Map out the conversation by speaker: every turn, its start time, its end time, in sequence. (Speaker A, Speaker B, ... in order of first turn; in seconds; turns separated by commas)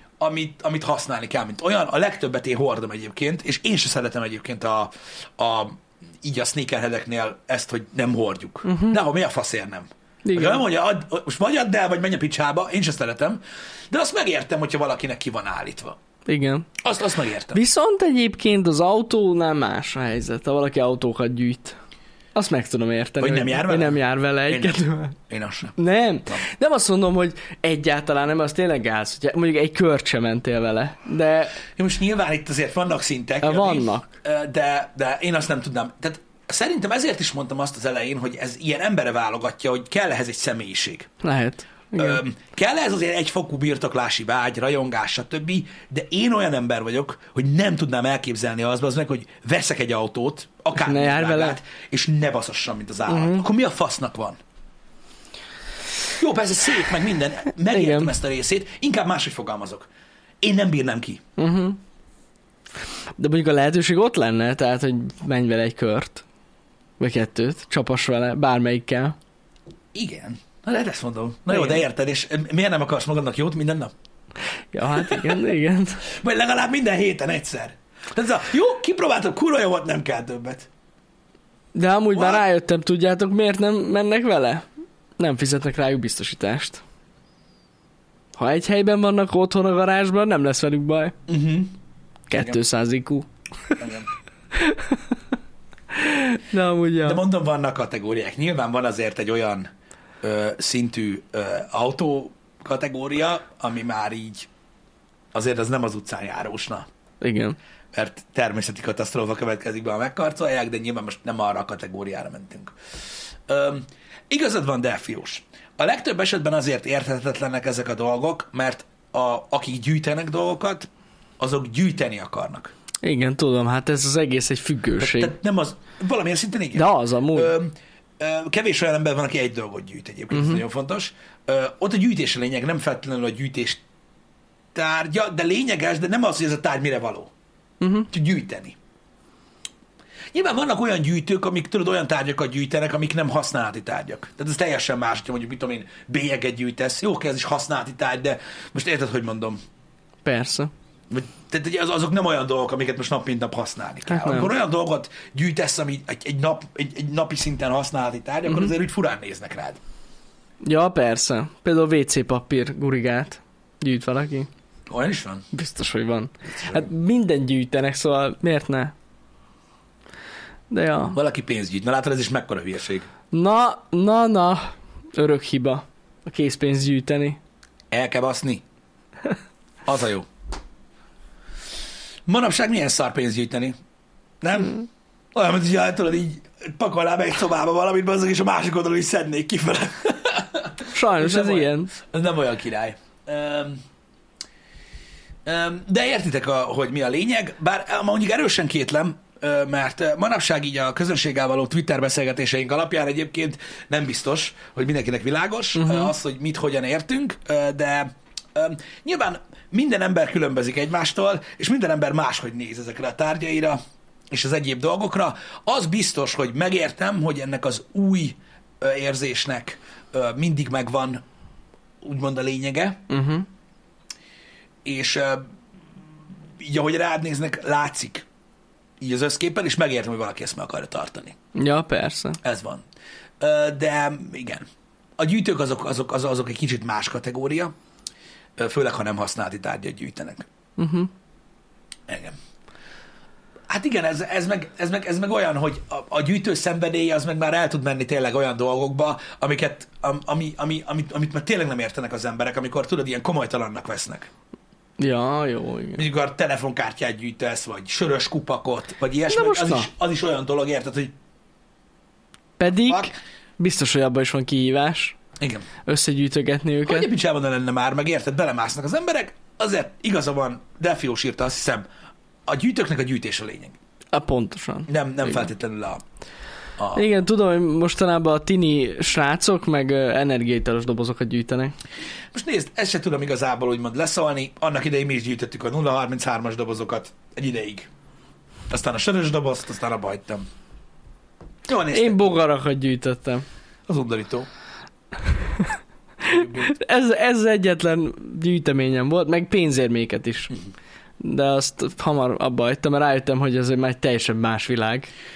Speaker A: 0.2-13.4, Speaker B: 8.7-9.0, Speaker B: 10.2-10.6, Speaker A: 13.9-16.0, Speaker B: 16.3-16.8, Speaker A: 16.8-17.6, Speaker B: 17.5-21.8, Speaker B: 22.4-25.2, Speaker A: 23.2-25.8, Speaker B: 25.8-31.6, Speaker A: 31.8-41.1, Speaker B: 33.4-34.1, Speaker B: 41.2-42.2, Speaker A: 42.0-54.4, Speaker B: 50.8-51.6, Speaker B: 53.1-53.5, Speaker A: 56.1-59.9, Speaker B: 57.7-58.1, Speaker A: 60.4-61.2, Speaker B: 61.4-61.8, Speaker B: 63.2-66.2, Speaker B: 67.0-69.2, Speaker A: 69.9-73.9, Speaker B: 71.5-71.8, Speaker B: 74.7-76.0, Speaker A: 75.0-75.4, Speaker A: 76.1-80.7, Speaker B: 81.8-84.7, Speaker A: 82.1-82.4, Speaker B: 85.2-86.8, Speaker B: 88.4-91.2, Speaker A: 91.3-91.8, Speaker B: 92.3-93.3, Speaker A: 92.3-92.6, Speaker A: 93.8-94.1, Speaker B: 94.5-95.1, Speaker B: 95.9-97.2, Speaker A: 97.0-99.7, Speaker A: 100.2-104.5, Speaker A: 105.3-106.9, Speaker B: 107.2-107.6, Speaker A: 107.9-112.7, Speaker A: 113.5-122.7, Speaker B: 123.0-125.3, Speaker A: 125.0-133.8, Speaker B: 126.8-127.5, Speaker B: 130.3-130.6, Speaker A: 134.7-137.3, Speaker B: 137.8-138.1, Speaker A: 138.1-138.8, Speaker A: 140.3-149.6, Speaker B: 150.2-150.7, Speaker A: 151.1-159.8, Speaker B: 154.1-154.5, Speaker B: 160.6-164.5, Speaker A: 164.9-165.5, Speaker B: 165.5-168.9, Speaker A: 166.6-166.9, Speaker B: 170.7-171.2, Speaker A: 171.1-173.1, Speaker B: 173.3-177.4, Speaker A: 177.9-178.6, Speaker A: 179.8-180.3, Speaker A: 182.3-183.8, Speaker A: 184.4-193.8, Speaker B: 190.9-191.9, Speaker A: 195.4-213.8, Speaker B: 205.8-206.1, Speaker A: 214.3-221.2, Speaker A: 222.0-223.0, Speaker B: 223.1-223.5, Speaker A: 224.8-225.5, Speaker A: 226.6-228.3, Speaker A: 229.0-231.4, Speaker B: 231.5-232.4, Speaker A: 232.4-232.8, Speaker A: 233.4-234.7, Speaker A: 235.2-237.7, Speaker A: 238.6-240.5, Speaker B: 240.8-241.1, Speaker A: 242.1-242.4, Speaker A: 243.7-254.3, Speaker B: 255.0-256.1, Speaker A: 256.0-261.1, Speaker B: 259.3-259.9, Speaker B: 262.6-265.2, Speaker A: 262.7-263.1, Speaker A: 265.4-265.7, Speaker B: 265.9-267.1, Speaker A: 266.9-271.8, Speaker A: 272.5-273.8, Speaker B: 274.1-275.4, Speaker A: 274.9-276.0, Speaker A: 276.8-277.0, Speaker B: 276.9-281.8, Speaker A: 282.3-287.9, Speaker A: 288.7-290.5, Speaker A: 291.7-292.4, Speaker B: 291.9-293.4, Speaker A: 293.9-294.5, Speaker A: 296.2-296.7, Speaker B: 296.2-300.6, Speaker B: 301.2-305.1